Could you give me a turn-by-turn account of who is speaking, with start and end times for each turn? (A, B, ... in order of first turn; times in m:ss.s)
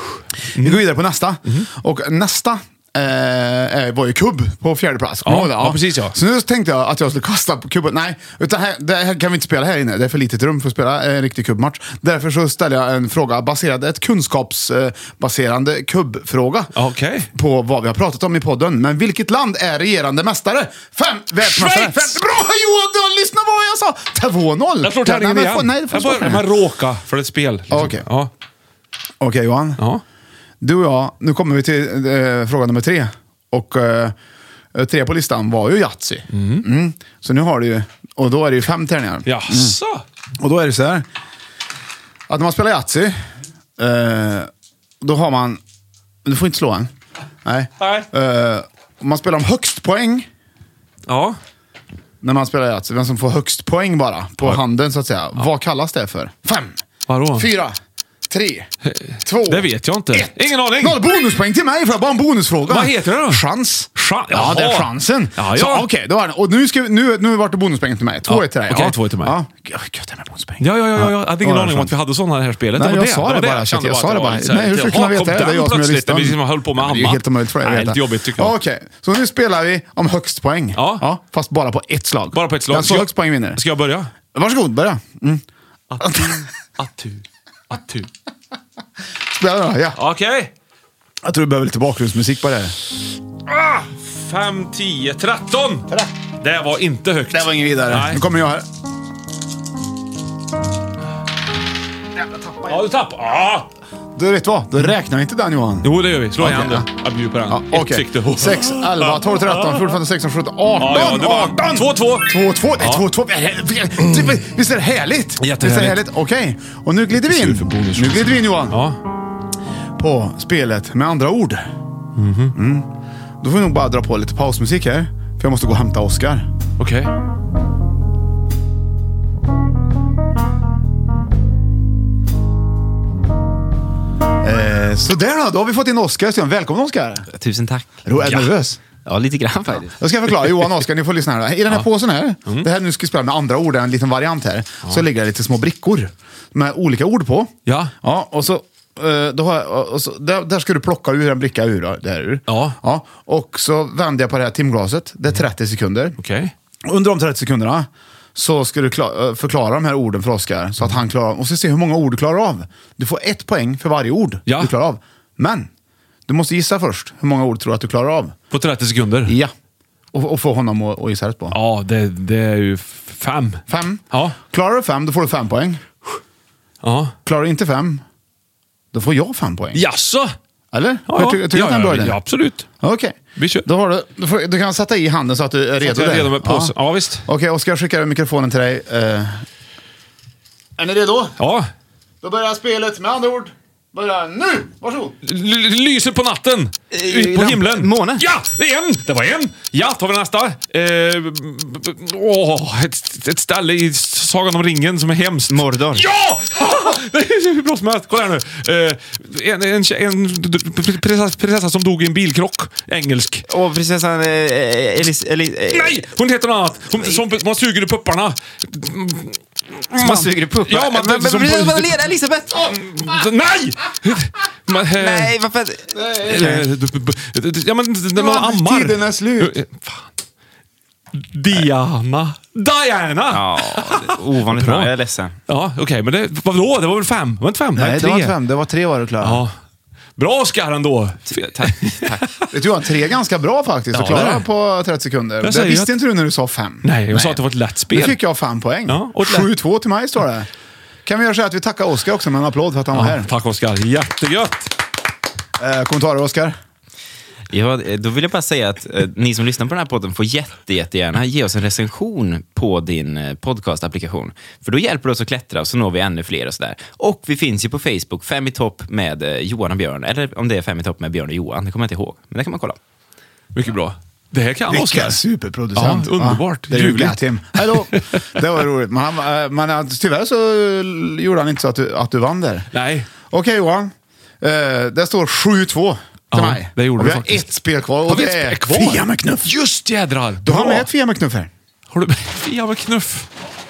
0:00.5-0:16.7 A
0:00.5-0:00.8 B
0:05.2-0:06.2 B
0:16.7-0:17.3 B
0:17.3-0:26.5 A
0:21.4-0:22.2 B
0:24.8-0:28.3 B
0:27.7-0:28.0 A
0:29.2-0:29.8 A
0:30.6-0:34.1 A
0:34.7-0:39.8 A
0:36.3-0:36.7 B
0:39.2-0:40.0 B
0:40.4-0:41.1 A
0:42.3-0:43.2 A
0:43.8-0:44.5 A
0:45.0-0:45.6 A
0:46.2-0:46.9 A
0:47.4-0:50.3 A
0:47.8-0:48.1 B
0:51.1-0:51.4 B
0:52.2-0:56.8 A
0:57.1-0:57.5 B
0:57.3-0:57.8 A
0:58.3-0:58.7 A
0:58.8-1:01.0 B
0:59.2-1:11.9 A
1:02.7-1:05.8 B
1:08.3-1:09.4 B
1:10.6-1:18.6 B
1:12.7-1:23.6 A
1:20.7-1:21.0 B
1:22.3-1:24.1 B
1:24.3-1:25.4 A
1:25.9-1:28.1 B
1:26.0-1:26.4 A
1:29.3-1:30.0 A
1:30.0-1:30.5 B
1:31.2-1:32.8 A
1:33.5-1:35.9 B
1:36.4-1:38.2 B
1:37.3-1:38.6 A
1:42.2-1:42.7 A
1:42.6-1:43.7 B
1:44.1-1:46.9 A
1:45.8-1:50.0 B
1:47.5-1:58.8 A
1:50.8-1:53.0 B
1:55.4-1:56.0 B
1:57.2-1:59.0 B
2:00.0-2:01.7 A
2:02.2-2:02.5 B
2:02.5-2:02.9 A
2:03.4-2:06.5 A
2:06.8-2:07.1 B
2:14.4-2:17.3 A
2:17.3-2:18.0 C
2:18.0-2:18.8 A
2:18.2-2:18.5 B
2:19.0-2:20.0 C
2:20.0-2:36.2 A
2:27.6-2:27.9 B
2:32.5-2:32.8 B
2:36.2-2:36.5 B
2:36.8-2:45.7 A
2:44.5-2:44.7 B
2:46.3-2:48.4 A
2:48.5-2:49.4 B
2:49.2-2:49.5 A
2:50.1-2:51.6 A
2:51.5-2:54.4 B
2:53.7-2:55.8 A
2:56.8-2:57.1 B
2:57.2-2:58.0 A
2:58.9-2:59.8 A
2:59.7-3:00.3 B
3:00.7-3:02.2 A
3:01.1-3:02.7 B
3:02.8-3:06.7 A
3:03.4-3:03.7 B
3:05.8-3:07.2 B
3:07.2-3:09.4 A
3:10.8-3:11.4 A
3:11.4-3:11.6 B
3:12.2-3:15.1 A
3:15.2-3:33.4 B
3:16.9-3:18.3 C
3:25.5-3:26.1 C
3:33.5-3:36.1 C
3:35.7-3:42.0 B
3:36.9-3:37.3 C
3:40.0-3:42.8 C
3:42.6-3:45.3 B
3:44.8-3:45.9 C
3:45.9-3:46.7 A
3:46.2-3:50.1 B
3:48.1-3:49.6 A
3:51.1-3:54.9 B
3:53.3-3:55.4 C
3:55.5-3:58.4 B
3:57.7-3:59.4 A
3:59.2-3:59.5 B
4:00.2-4:02.5 B
4:01.3-4:02.2 C
4:02.5-4:07.4 A
4:03.9-4:04.4 B
4:05.4-4:05.9 B
4:06.8-4:08.2 B
4:07.9-4:10.5 A
4:08.9-4:09.5 B
4:11.0-4:13.3 A
4:12.9-4:14.7 B
4:15.6-4:16.6 A
4:17.5-4:32.8 C
4:33.5-4:35.2 B
4:34.7-4:42.7 A
4:35.7-4:38.4 B
4:42.7-4:43.1 B
4:43.3-4:49.6 A
4:46.3-4:50.9 B
4:50.4-4:51.5 A
4:51.9-4:53.3 B